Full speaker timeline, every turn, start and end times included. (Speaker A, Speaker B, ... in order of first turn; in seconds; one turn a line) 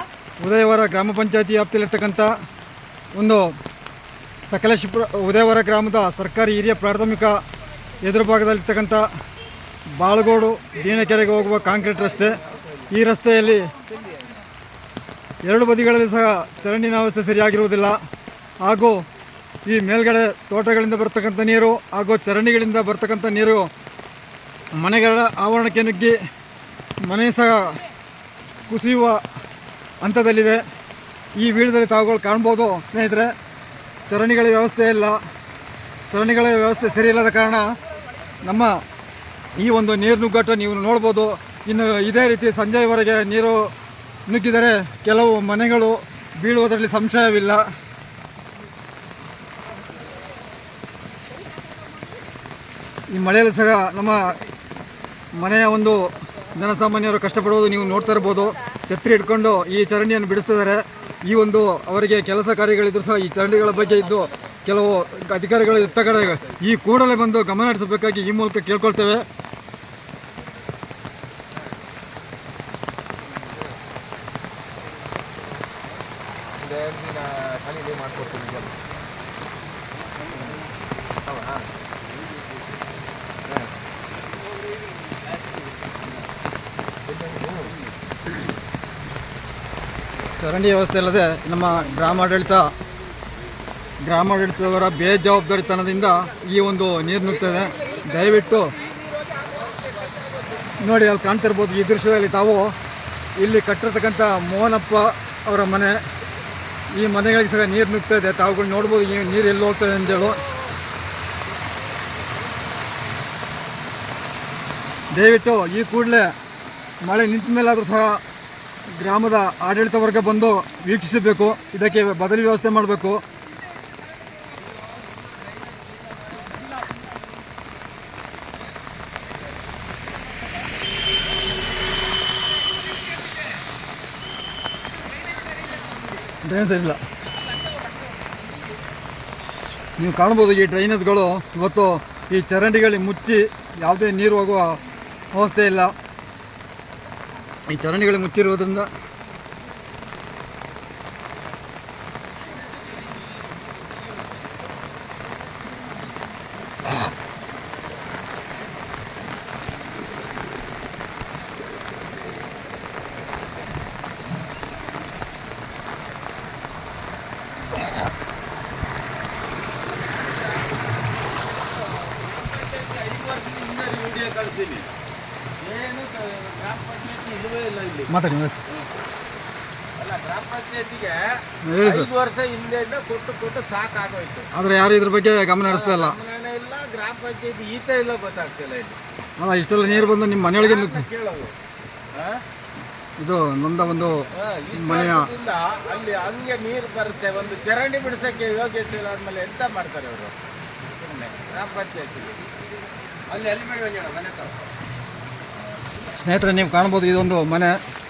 Speaker A: 0.4-2.3
Speaker A: 3.1-3.5
Speaker A: 4.4-7.4
Speaker A: 8.0-9.1
Speaker A: 9.9-13.7
Speaker A: 15.4-18.0
Speaker A: 18.6-19.0
Speaker A: 19.6-23.7
Speaker A: 24.7-26.2
Speaker A: 27.0-27.8
Speaker A: 28.7-29.2
Speaker A: 30.0-30.6
Speaker A: 31.4-33.3
Speaker A: 34.1-35.2
Speaker A: 36.1-37.8
Speaker A: 38.4-38.8
Speaker A: 39.5-43.7
Speaker A: 44.3-47.7
Speaker A: 53.1-54.4
Speaker A: 55.4-69.2
Speaker B: 76.5-78.8
Speaker B: 81.2-81.7
Speaker B: 87.1-87.8
Speaker A: 90.4-92.7
Speaker A: 94.0-98.7
Speaker B: 97.2-100.8
Speaker A: 100.8-102.7
Speaker A: 103.4-106.0
Speaker A: 106.9-110.4
Speaker A: 115.1-116.3
Speaker A: 117.0-118.2
Speaker A: 119.0-123.2
Speaker A: 136.4-137.0
Speaker A: 140.0-144.8
Speaker A: 145.3-145.9
Speaker A: 147.7-148.9
Speaker B: 169.9-174.9
Speaker B: 175.6-178.1
Speaker A: 178.1-178.6
Speaker B: 179.9-184.5
Speaker A: 181.7-182.1
Speaker A: 184.5-186.2
Speaker B: 185.7-189.0
Speaker A: 189.4-191.1
Speaker B: 189.8-191.5
Speaker B: 192.1-192.4
Speaker A: 193.2-195.3
Speaker B: 194.3-200.3
Speaker B: 201.0-202.4
Speaker B: 203.3-204.5
Speaker A: 206.2-207.8